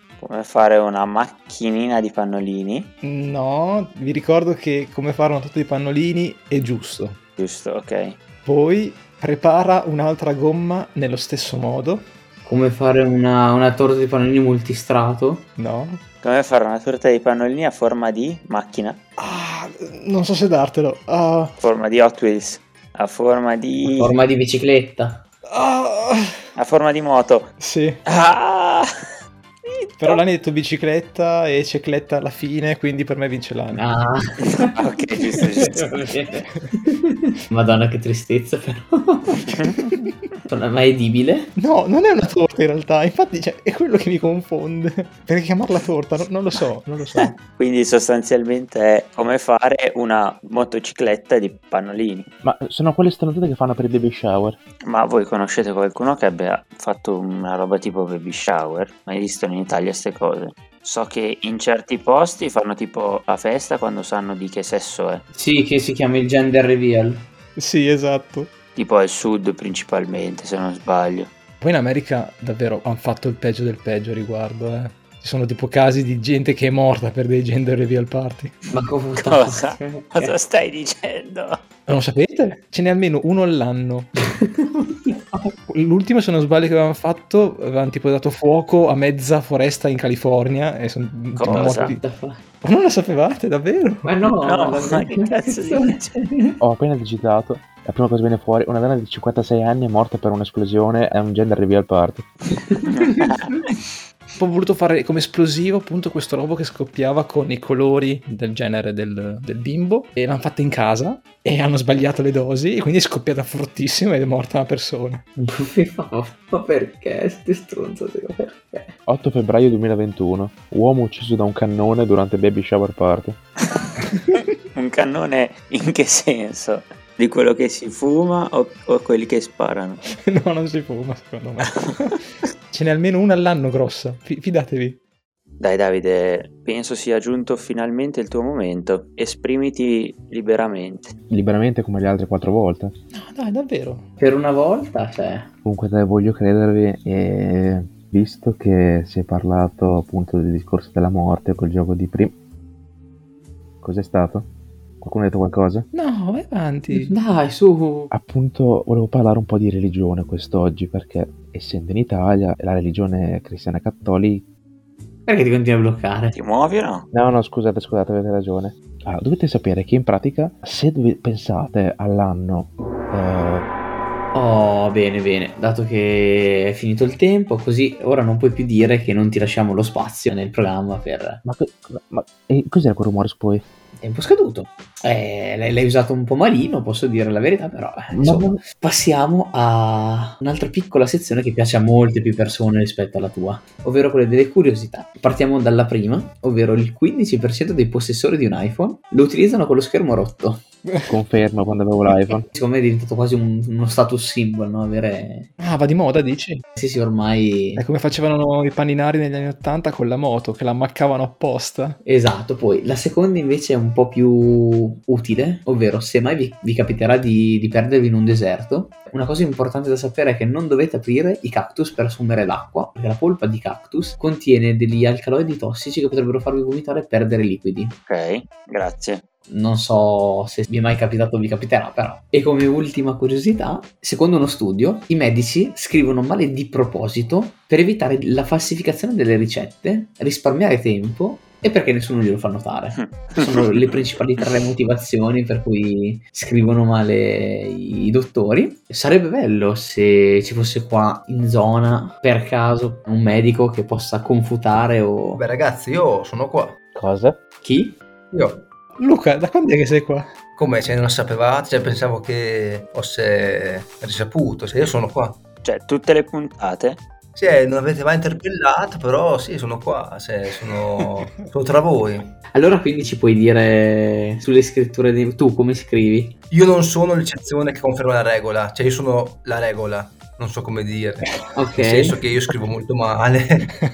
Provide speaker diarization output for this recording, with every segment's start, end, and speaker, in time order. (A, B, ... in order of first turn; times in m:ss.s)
0:00.2-0:02.9 A
0:03.0-0:07.2 B
0:07.4-0:08.2 A
0:08.4-0:12.0 B
0:12.4-0:15.5 C
0:15.6-0:16.0 B
0:16.2-0:19.0 A
0:19.2-0:21.6 B
0:21.6-0:24.1 A
0:23.8-0:25.2 C
0:25.5-0:26.4 B
0:26.6-0:27.5 A
0:27.6-0:28.0 B
0:28.0-0:28.8 A
0:29.7-0:30.2 A
0:30.0-0:33.8 B
0:33.7-0:34.7 C
0:34.7-0:35.9 A
0:35.4-0:39.4 C
0:39.5-0:39.9 A
0:40.5-0:41.5 C
0:41.6-0:47.4 B
0:47.2-0:52.3 A
0:52.4-0:54.6 D
0:54.8-1:05.2 A
1:05.3-1:07.2 C
1:07.6-1:08.5 B
1:08.8-1:11.3 A
1:11.6-1:18.6 B
1:18.7-1:20.3 C
1:19.2-1:21.6 A
1:21.9-1:24.1 B
1:24.4-1:25.5 C
1:25.7-1:32.0 B
1:31.3-1:32.0 A
1:31.5-1:32.4 C
1:32.6-1:34.0 B
1:34.0-1:36.6 C
1:34.4-1:36.1 A
1:36.6-1:42.3 D
1:42.9-1:43.4 A
1:44.4-1:55.2 B
1:55.4-1:58.9 C
1:59.0-2:03.4 D
2:04.7-2:10.0 A
2:10.2-2:15.0 B
2:15.6-2:21.1 A
2:21.3-2:22.9 D
2:23.1-2:24.0 B
2:24.2-2:25.5 C
2:25.6-2:32.3 D
2:33.8-2:34.5 D
2:35.0-2:35.8 D
2:35.9-2:37.1 B
2:36.9-2:38.1 C
2:38.1-2:44.4 D
2:45.2-2:46.4 C
2:46.3-2:47.1 A
2:47.1-2:53.7 D
2:54.3-3:01.4 C
3:01.4-3:03.6 D
3:04.0-3:20.6 C
3:08.2-3:08.6 D
3:20.9-3:21.1 B
3:21.1-3:22.4 D
3:22.5-3:25.5 C
3:25.6-3:26.6 B
3:26.8-3:27.8 C
3:27.8-3:32.0 B
3:32.0-3:48.0 C
3:48.1-3:49.2 A
3:49.5-4:15.4 C
4:03.0-4:04.1 A
4:15.4-4:16.8 E
4:16.9-4:17.4 D
4:17.6-4:18.0 C
4:18.3-4:18.6 E
4:19.0-4:20.3 B
4:20.6-4:25.4 E
4:25.6-4:27.0 A
4:27.4-4:32.3 E
4:32.5-4:36.4 C
4:36.5-4:43.7 E
4:41.4-4:42.2 C